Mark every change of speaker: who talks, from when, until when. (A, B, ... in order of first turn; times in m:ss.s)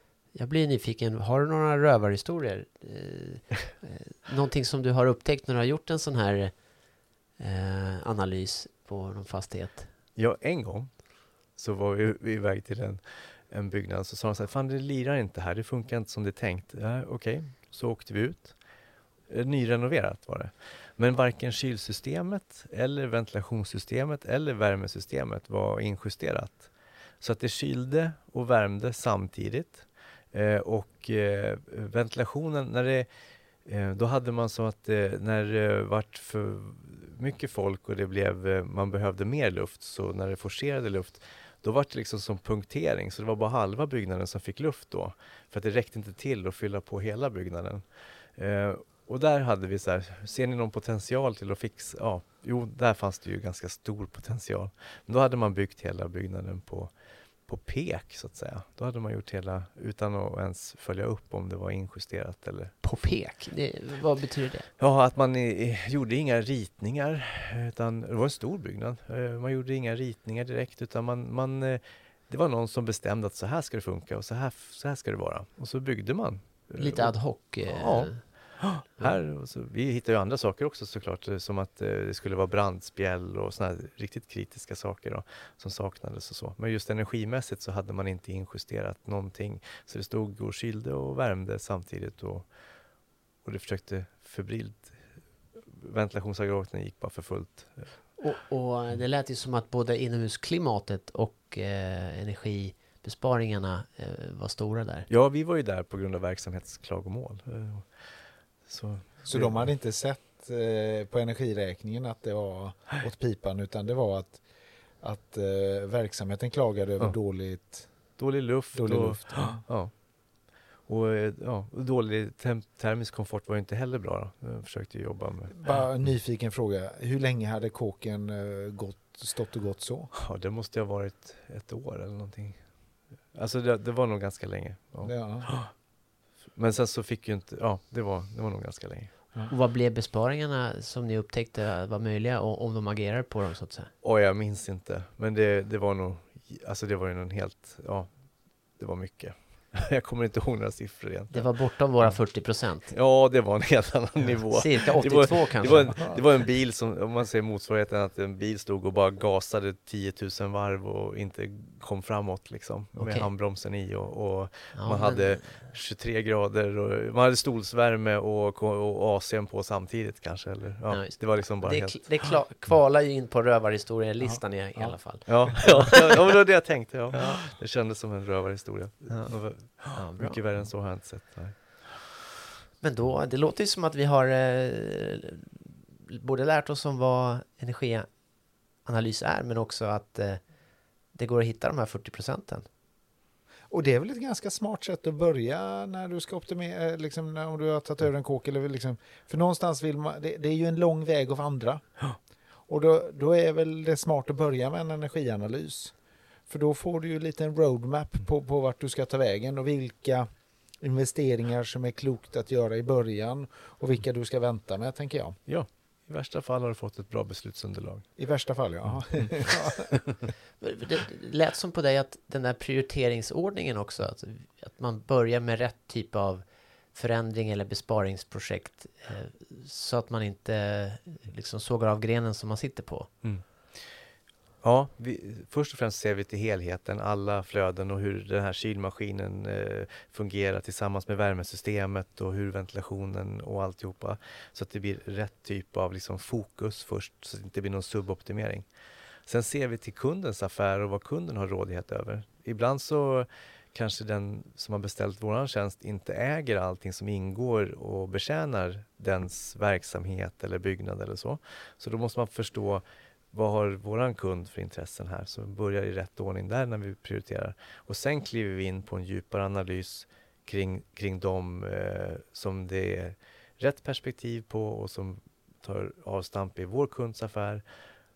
0:00.3-0:06.6 A
0:07.4-0:09.9 A
0:10.2-0:18.6 B
0:19.3-0:33.1 B
0:33.6-0:56.9 B
0:57.5-1:02.8 B
1:02.8-1:04.7 A
1:04.8-1:32.5 B
1:16.8-1:19.2 A
1:33.4-1:35.0 B
1:35.6-1:38.0 B
1:38.2-1:45.1 A
1:45.1-1:49.7 B
1:49.2-1:54.4 C
1:55.0-1:58.2 C
1:58.2-2:05.8 B
1:58.7-1:59.7 C
2:05.5-2:10.1 C
2:10.1-2:12.7 B
2:13.3-2:15.7 B
2:15.0-2:15.5 C
2:16.6-2:19.1 B
2:19.5-2:23.9 A
2:24.0-2:31.5 B
2:31.3-2:32.9 A
2:32.9-2:52.2 B
2:34.5-2:36.2 A
2:43.0-2:43.3 A
2:44.8-2:45.7 A
2:50.9-2:56.4 A
2:54.2-2:55.7 C
2:55.3-3:02.0 B
2:57.1-2:57.4 A
2:59.1-3:00.4 A
3:02.8-3:08.1 A
3:08.8-3:10.4 A
3:11.1-3:12.7 A
3:13.7-3:21.9 C
3:22.7-3:26.0 C
3:26.5-3:30.3 C
3:30.8-3:35.4 C
3:35.5-3:38.1 B
3:38.2-3:39.9 C
3:39.2-3:39.5 B
3:40.6-3:53.1 A
3:53.2-3:54.0 B
3:54.6-4:08.7 B
4:09.3-4:37.6 B